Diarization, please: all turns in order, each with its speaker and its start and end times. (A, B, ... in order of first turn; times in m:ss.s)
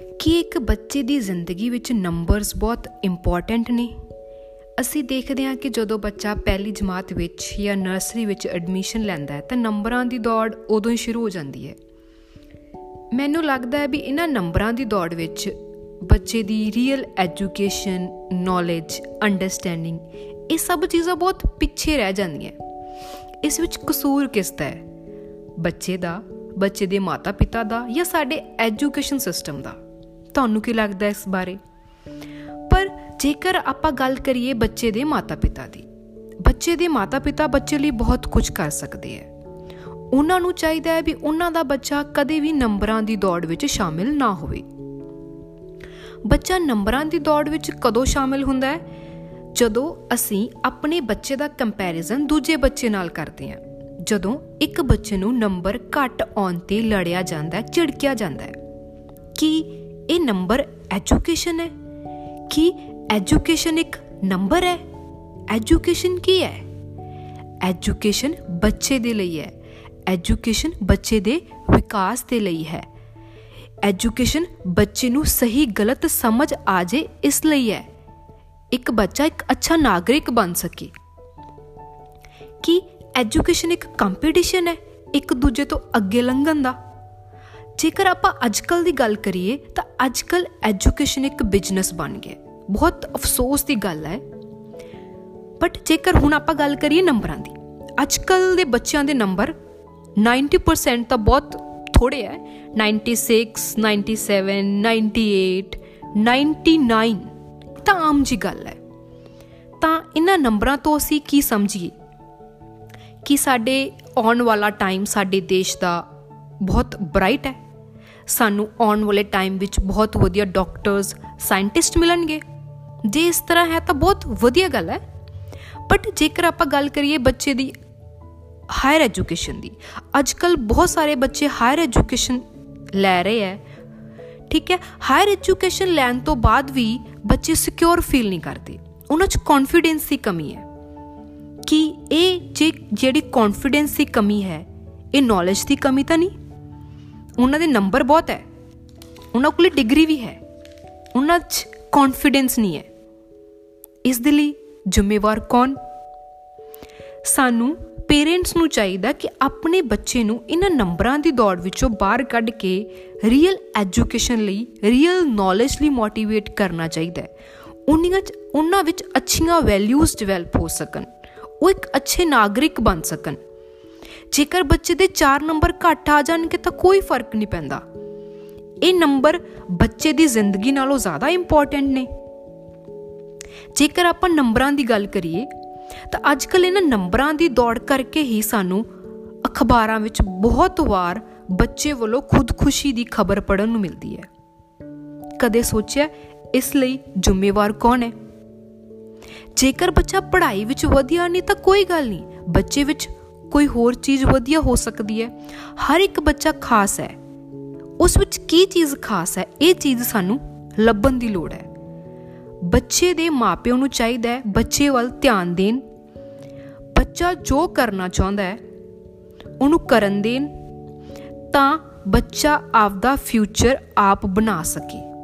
0:00.2-0:04.0 A
0:04.8-0:11.8 A
0:13.1-0:22.6 A
0:23.4-0:24.8 A
0:25.6-0:29.8 A
0:30.3-0:31.6 A
0:32.7-0:35.9 A
0:36.4-0:39.3 A
0:40.1-0:44.7 A
0:46.3-0:48.8 A
0:49.5-0:58.6 A
0:59.4-1:01.7 A
1:02.5-1:04.8 A
1:05.5-1:06.7 A
1:07.6-1:09.5 A
1:10.1-1:12.9 A
1:13.8-1:17.9 A
1:18.7-1:20.9 A
1:22.6-1:26.8 A
1:27.8-1:34.2 A
1:35.6-1:39.6 A
1:40.2-1:48.8 A
1:49.8-1:52.0 A
1:53.2-1:56.0 A
1:56.6-1:57.6 A
1:58.3-2:02.4 A
2:03.0-2:05.0 A
2:05.9-2:07.7 A
2:08.7-2:13.6 A
2:14.5-2:20.6 A
2:21.6-2:26.4 A
2:27.4-2:28.4 A
2:29.3-2:30.4 A
2:31.1-2:32.9 A
2:34.0-2:35.8 A
2:37.2-2:47.3 A
2:47.9-2:53.4 A
2:54.3-2:57.8 A
2:58.8-3:02.1 A
3:03.7-3:05.5 A
3:06.1-3:08.9 A
3:09.4-3:14.3 A
3:15.4-3:18.1 A
3:19.6-3:27.2 A
3:28.0-3:31.7 A
3:32.6-3:35.8 A
3:36.9-3:38.6 A
3:39.6-3:40.5 A
3:41.5-3:45.1 A